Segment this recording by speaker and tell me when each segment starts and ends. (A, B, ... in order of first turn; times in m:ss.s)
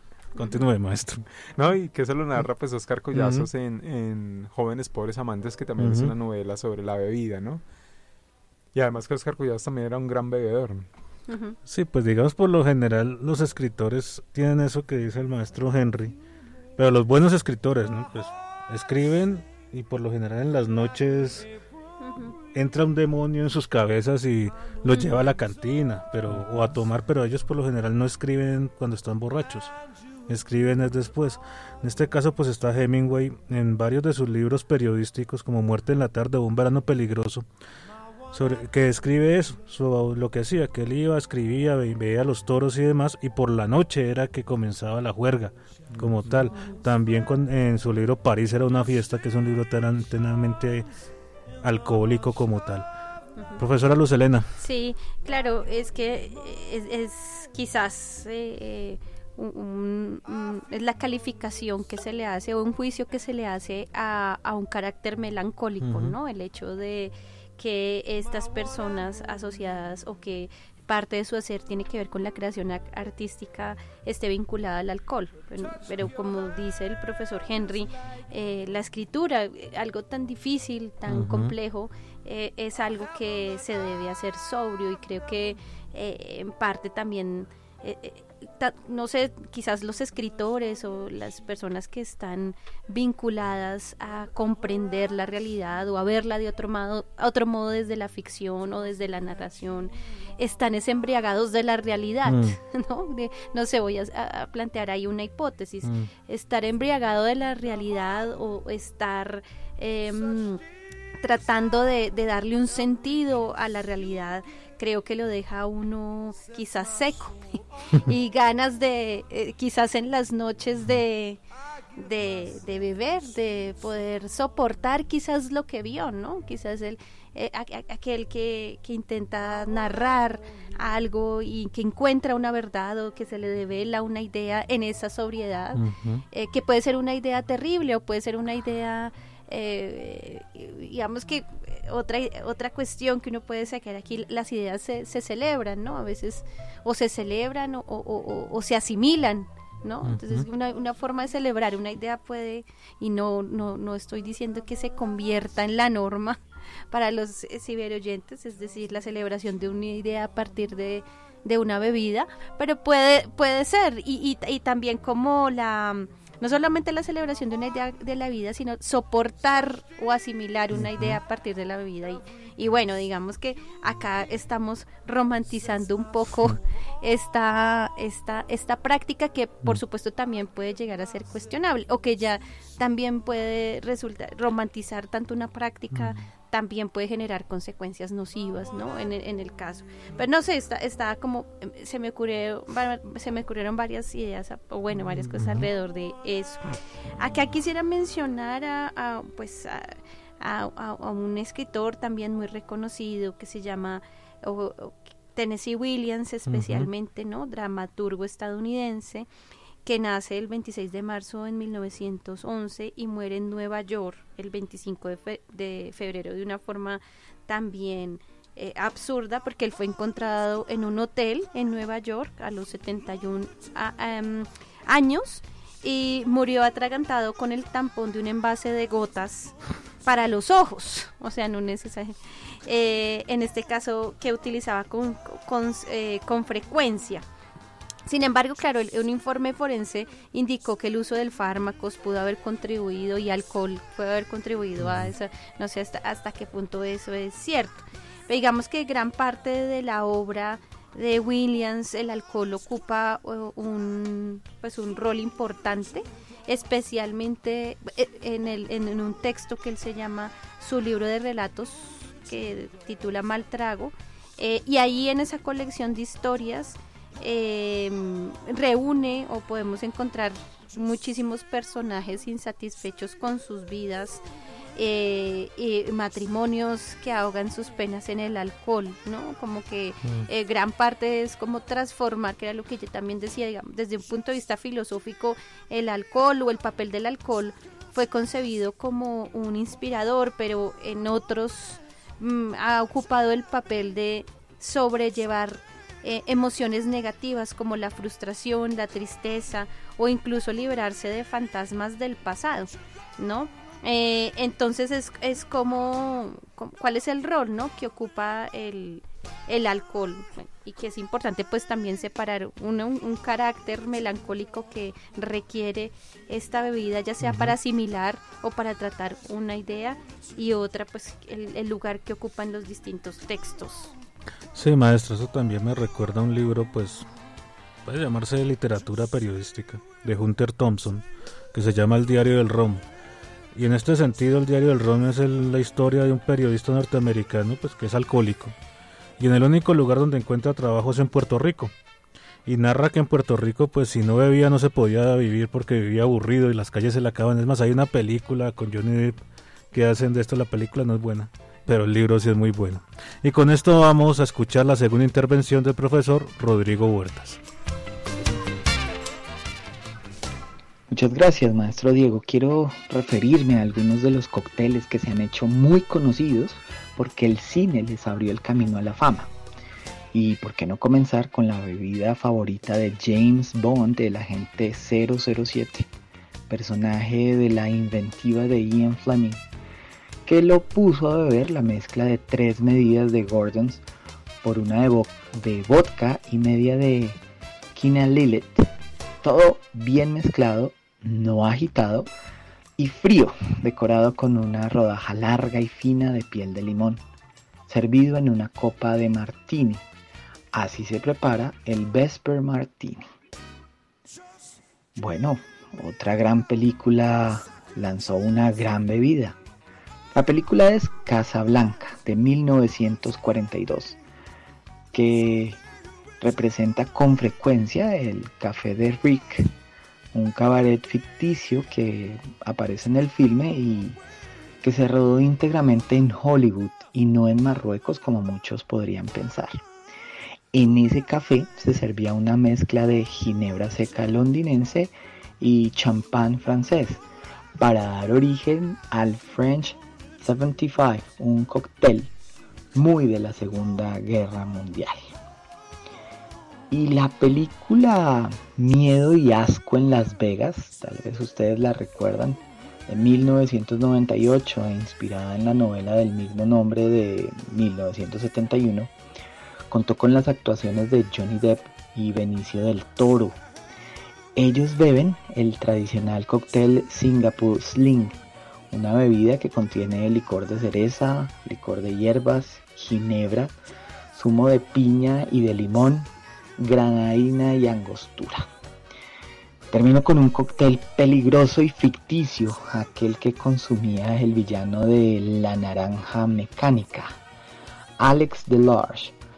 0:00.3-0:01.2 A
0:00.4-0:00.6 B
0:01.6-0:07.6 C
0:03.1-0:03.5 A
0:05.8-0:06.1 A
0:08.7-0:10.9 C
0:11.3-0:11.6 B
0:11.7-0:16.2 A
0:16.8-0:21.5 A
0:22.0-0:22.4 B
0:22.5-0:29.7 A
0:30.3-0:37.4 A
0:38.3-0:50.9 A
0:46.0-0:46.4 C
0:46.5-0:46.8 B
0:51.6-0:52.9 A
0:53.6-0:54.5 A
0:54.6-1:50.6 B
1:05.8-1:06.1 A
1:21.1-1:21.5 A
1:42.2-1:42.6 A
1:45.8-1:46.1 A
1:51.2-2:01.4 B
2:02.0-2:36.4 B
2:15.7-2:16.2 A
2:30.0-2:30.4 A
2:36.9-3:29.3 B
2:50.7-2:51.2 A
3:05.9-3:06.2 A
3:15.4-3:15.7 A
3:26.5-3:26.9 A
3:29.8-3:57.2 B
3:58.0-4:34.2 B
4:34.8-5:23.9 B
5:17.2-5:17.5 A
5:24.5-5:27.1 A
5:27.8-5:32.8 A
5:33.5-5:38.5 A
5:39.2-5:41.7 A
5:42.4-5:49.2 A
5:49.7-5:57.4 A
6:00.9-6:09.3 D
6:10.1-6:15.9 D
6:16.5-6:19.4 D
6:20.2-6:23.8 D
6:24.4-6:27.2 D
6:27.7-6:28.7 D
6:29.2-6:32.1 D
6:32.8-6:37.0 D
6:37.7-6:39.8 D
6:40.5-6:43.0 D
6:45.0-6:49.4 D
6:50.1-6:54.0 D
6:54.9-6:55.6 D
6:56.2-6:59.5 D
7:00.1-7:04.0 D
7:04.6-7:09.6 D
7:10.5-7:17.0 D
7:17.6-7:22.1 D
7:22.7-7:25.1 D
7:26.7-7:38.9 D
7:39.7-7:43.4 D
7:44.4-7:48.2 D
7:48.7-7:53.5 D
7:54.1-7:58.5 D
7:59.7-8:07.2 D
8:08.0-8:09.1 D